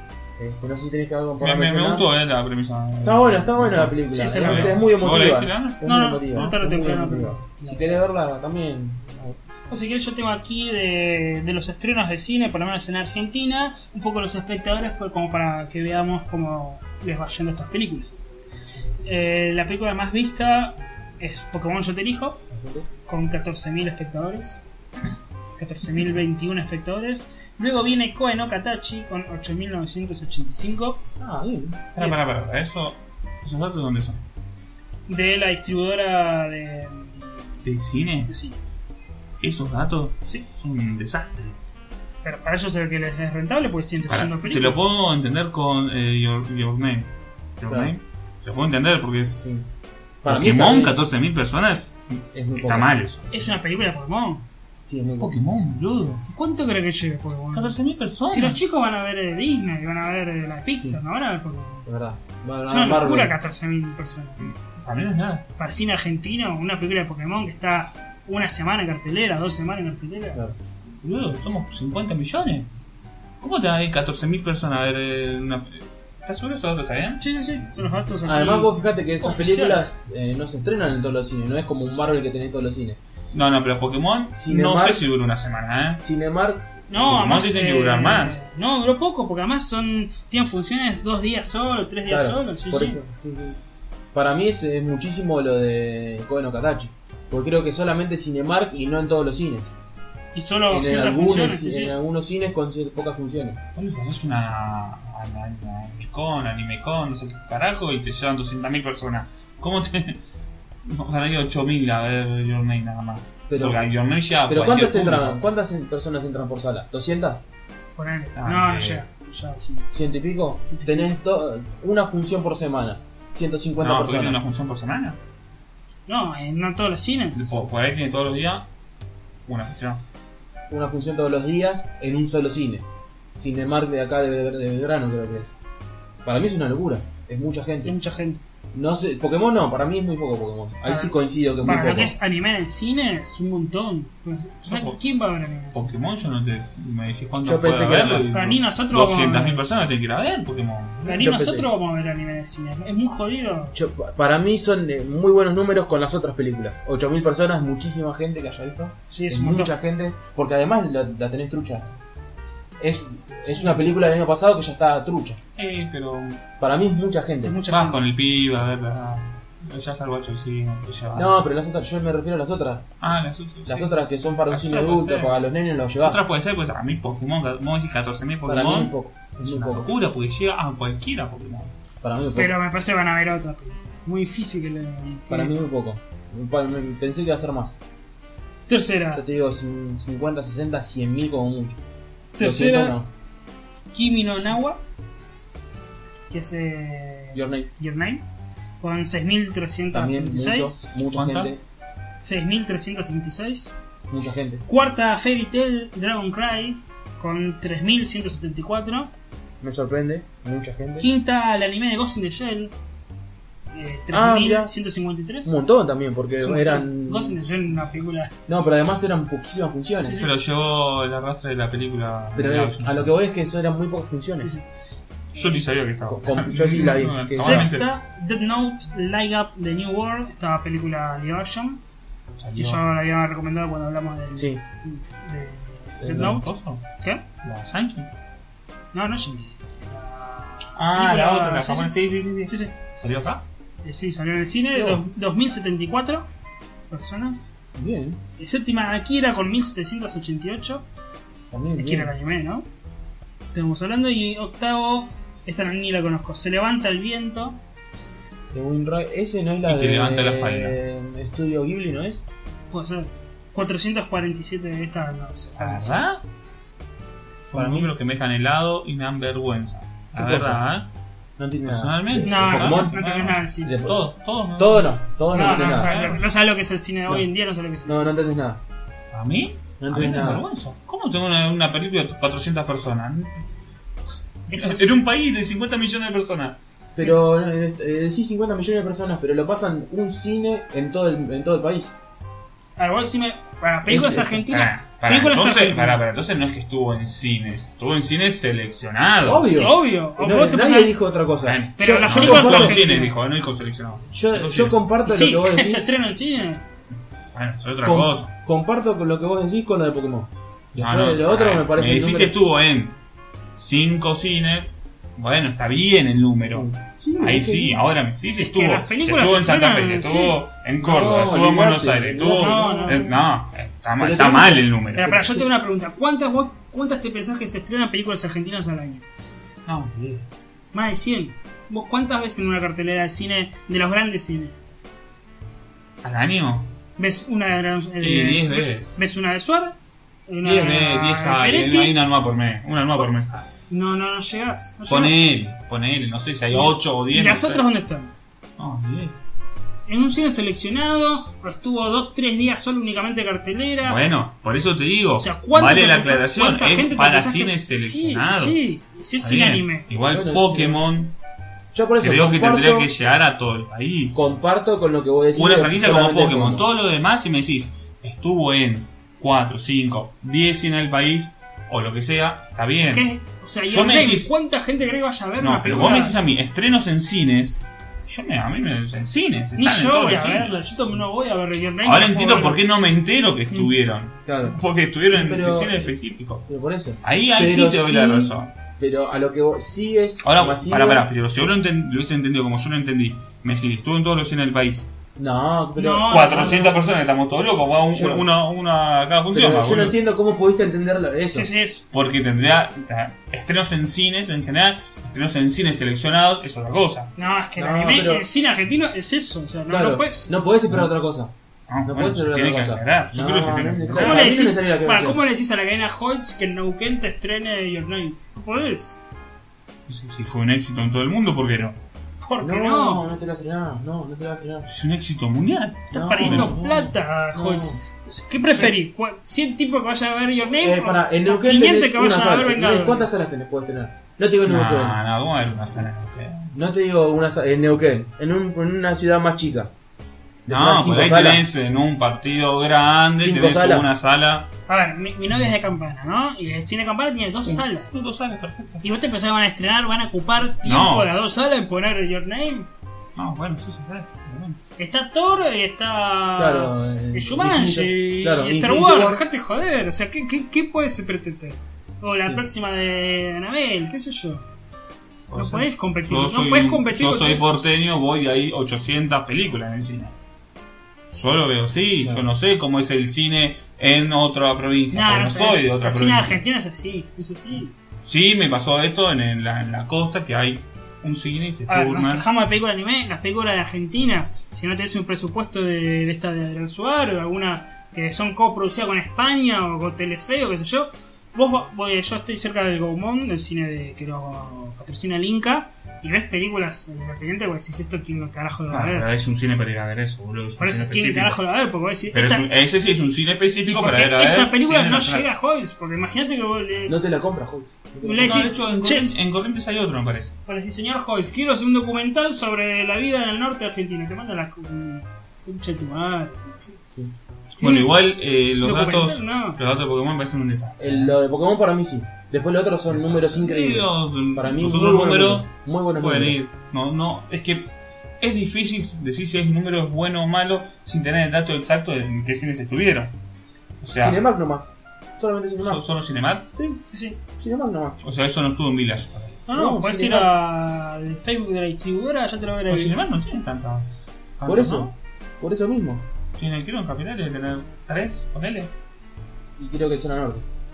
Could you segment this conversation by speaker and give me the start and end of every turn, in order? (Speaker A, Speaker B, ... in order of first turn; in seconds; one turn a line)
Speaker A: 0.4-2.1
Speaker B: 1.4-6.5
Speaker A: 3.0-9.4
Speaker C: 4.1-4.9
Speaker C: 5.8-8.0
Speaker C: 9.7-18.2
Speaker C: 19.0-22.4
Speaker A: 22.5-22.9
Speaker C: 23.1-24.6
Speaker C: 25.6-31.0
Speaker A: 31.2-32.2
Speaker B: 31.9-34.2
Speaker C: 35.1-37.5
Speaker B: 37.6-38.3
Speaker C: 38.3-38.6
Speaker B: 39.4-41.6
Speaker C: 42.2-44.7
Speaker B: 44.1-49.5
Speaker A: 47.7-47.9
Speaker A: 50.2-51.0
Speaker B: 50.2-53.4
Speaker A: 52.3-52.9
Speaker C: 53.3-54.4
Speaker A: 54.9-55.4
Speaker B: 55.2-56.2
Speaker C: 56.2-61.9
Speaker B: 57.5-58.6
Speaker A: 61.9-63.4
Speaker C: 62.7-64.4
Speaker B: 64.4-65.4
Speaker C: 65.6-70.4
Speaker B: 71.0-72.7
Speaker B: 73.4-77.2
Speaker C: 77.2-79.8
Speaker A: 78.2-83.0
Speaker B: 83.3-86.0
Speaker A: 84.3-85.1
Speaker A: 86.0-86.8
Speaker C: 86.9-93.0
Speaker B: 87.0-88.4
Speaker A: 92.1-93.6
Speaker A: 94.1-99.7
Speaker C: 100.3-101.9
Speaker A: 100.7-103.6
Speaker B: 103.7-110.2
Speaker B: 110.8-115.4
Speaker A: 113.5-113.9
Speaker A: 114.5-117.4
Speaker C: 118.0-119.9
Speaker B: 118.3-119.0
Speaker A: 119.9-124.4
Speaker C: 120.7-121.1
Speaker B: 123.8-125.2
Speaker C: 126.1-127.6
Speaker B: 127.3-128.7
Speaker B: 129.4-130.0
Speaker A: 130.7-135.6
Speaker A: 136.2-137.9
Speaker C: 137.8-138.4
Speaker A: 138.7-142.2
Speaker C: 140.8-145.9
Speaker B: 144.6-145.0
Speaker B: 145.7-151.2
Speaker A: 147.4-148.4
Speaker C: 148.3-149.6
Speaker A: 151.0-151.7
Speaker C: 151.0-153.7
Speaker A: 153.7-161.9
Speaker C: 159.1-159.7
Speaker A: 162.8-165.4
Speaker B: 165.6-166.4
Speaker A: 166.6-167.6
Speaker C: 167.4-168.0
Speaker B: 167.7-171.3
Speaker A: 171.1-172.8
Speaker B: 173.0-175.4
Speaker A: 173.7-176.2
Speaker B: 176.0-181.7
Speaker A: 178.4-179.9
Speaker A: 182.0-182.5
Speaker C: 182.3-185.5
Speaker A: 185.3-187.8
Speaker C: 188.7-189.2
Speaker A: 189.1-191.8
Speaker C: 192.4-192.9
Speaker A: 192.4-193.1
Speaker C: 193.9-194.8
Speaker C: 196.3-198.2
Speaker A: 197.3-197.7
Speaker C: 198.8-200.8
Speaker A: 199.9-201.6
Speaker B: 201.1-201.5
Speaker C: 202.2-203.8
Speaker A: 204.1-204.6
Speaker C: 204.7-209.1
Speaker A: 209.6-211.1
Speaker C: 211.0-212.7
Speaker C: 213.7-215.6
Speaker A: 214.1-214.7
Speaker A: 215.4-217.4
Speaker C: 216.4-218.3
Speaker A: 218.5-220.2
Speaker C: 220.0-220.3
Speaker B: 220.2-223.2
Speaker A: 222.3-224.5
Speaker B: 225.3-227.9
Speaker C: 225.3-225.6
Speaker A: 226.1-227.8
Speaker C: 227.4-231.8
Speaker B: 232.4-232.8
Speaker C: 232.5-236.5
Speaker A: 234.3-234.6
Speaker A: 236.0-236.4
Speaker B: 236.0-236.8
Speaker B: 237.4-238.1
Speaker C: 238.9-241.9
Speaker B: 240.8-243.4
Speaker C: 242.4-242.7
Speaker C: 243.8-246.3
Speaker A: 244.7-245.0
Speaker C: 246.9-247.5
Speaker A: 247.8-248.2
Speaker C: 248.4-250.8
Speaker A: 251.5-252.1
Speaker C: 251.7-252.7
Speaker C: 253.5-257.6
Speaker A: 258.5-262.2
Speaker B: 259.6-260.8
Speaker C: 262.7-266.2
Speaker B: 265.6-266.2
Speaker B: 267.5-270.9
Speaker A: 267.5-267.9
Speaker A: 270.1-270.6
Speaker A: 271.4-273.0
Speaker B: 271.6-274.9
Speaker C: 272.2-273.7
Speaker A: 273.6-276.0
Speaker C: 275.3-278.1
Speaker B: 275.5-276.2
Speaker A: 277.9-278.6
Speaker B: 279.1-283.4
Speaker A: 279.8-280.4
Speaker C: 284.5-284.9
Speaker B: 284.5-286.6
Speaker A: 286.9-291.9
Speaker C: 292.8-296.0
Speaker A: 293.9-294.3
Speaker B: 294.2-299.6
Speaker A: 299.2-303.0
Speaker C: 299.6-300.9
Speaker B: 301.4-304.8
Speaker C: 301.8-303.1
Speaker A: 304.1-305.9
Speaker C: 305.0-306.6
Speaker B: 307.3-308.3
Speaker A: 307.8-312.4
Speaker B: 310.8-313.0
Speaker B: 313.6-325.1
Speaker A: 316.5-317.8
Speaker C: 318.4-320.4
Speaker A: 320.8-323.2
Speaker C: 322.2-323.1
Speaker A: 324.0-325.5
Speaker C: 324.9-329.0
Speaker B: 329.6-330.3
Speaker C: 330.7-334.5
Speaker B: 336.0-336.7
Speaker C: 337.0-339.8
Speaker B: 338.0-338.9
Speaker C: 340.3-341.9
Speaker B: 340.4-343.5
Speaker C: 343.7-345.3
Speaker B: 344.9-347.6
Speaker C: 346.5-348.1
Speaker B: 348.6-349.2
Speaker C: 349.9-354.0
Speaker B: 353.8-358.6
Speaker C: 355.2-359.9
Speaker B: 359.2-361.1
Speaker A: 360.1-360.8
Speaker A: 361.7-362.9
Speaker B: 362.0-364.2
Speaker A: 364.1-366.6
Speaker B: 365.3-373.1
Speaker C: 372.9-376.1
Speaker B: 373.7-374.3
Speaker B: 375.4-380.5
Speaker C: 379.6-382.6
Speaker B: 381.8-386.4
Speaker A: 384.2-384.6
Speaker A: 385.1-385.9
Speaker A: 386.5-391.1
Speaker B: 387.0-388.5
Speaker B: 390.2-394.9
Speaker A: 395.2-396.8
Speaker C: 395.8-396.9
Speaker B: 396.0-399.9
Speaker A: 397.9-398.2
Speaker A: 399.3-401.5
Speaker C: 401.3-401.8
Speaker B: 401.9-407.1
Speaker C: 407.2-410.4
Speaker A: 407.6-408.2
Speaker A: 409.7-411.3
Speaker B: 411.7-414.3
Speaker A: 411.8-415.2
Speaker C: 413.9-419.0
Speaker B: 419.9-421.8
Speaker C: 422.2-423.1
Speaker A: 422.4-424.7
Speaker B: 424.7-426.6
Speaker A: 425.9-427.8
Speaker C: 425.9-433.1
Speaker A: 430.6-434.9
Speaker B: 434.4-436.5
Speaker A: 436.5-439.7
Speaker B: 440.4-444.5
Speaker A: 440.5-441.5
Speaker A: 443.1-443.9
Speaker C: 444.7-447.9
Speaker B: 447.4-448.8
Speaker C: 448.8-452.7
Speaker B: 450.6-451.1
Speaker B: 453.1-454.6
Speaker C: 454.8-464.4
Speaker A: 456.4-459.2
Speaker B: 465.3-470.1
Speaker C: 465.3-467.5
Speaker B: 471.1-476.4
Speaker A: 472.0-472.3
Speaker C: 474.9-477.7
Speaker B: 478.0-482.2
Speaker C: 481.7-499.1
Speaker B: 498.7-501.4
Speaker C: 500.6-502.4
Speaker B: 502.1-505.3
Speaker C: 503.7-507.0
Speaker A: 506.9-508.6
Speaker C: 508.0-509.2
Speaker B: 508.2-510.3
Speaker C: 510.5-516.8
Speaker C: 517.5-517.9
Speaker B: 517.6-521.1
Speaker C: 518.6-519.6
Speaker A: 520.8-526.4
Speaker B: 522.9-533.1
Speaker B: 533.8-534.2
Speaker A: 534.0-535.8
Speaker B: 535.6-536.5
Speaker C: 536.9-537.2
Speaker A: 537.4-538.0
Speaker B: 538.0-539.4
Speaker C: 539.5-543.0
Speaker A: 539.5-540.3
Speaker B: 542.7-544.9
Speaker A: 544.4-546.0
Speaker B: 546.4-548.7
Speaker A: 549.6-550.4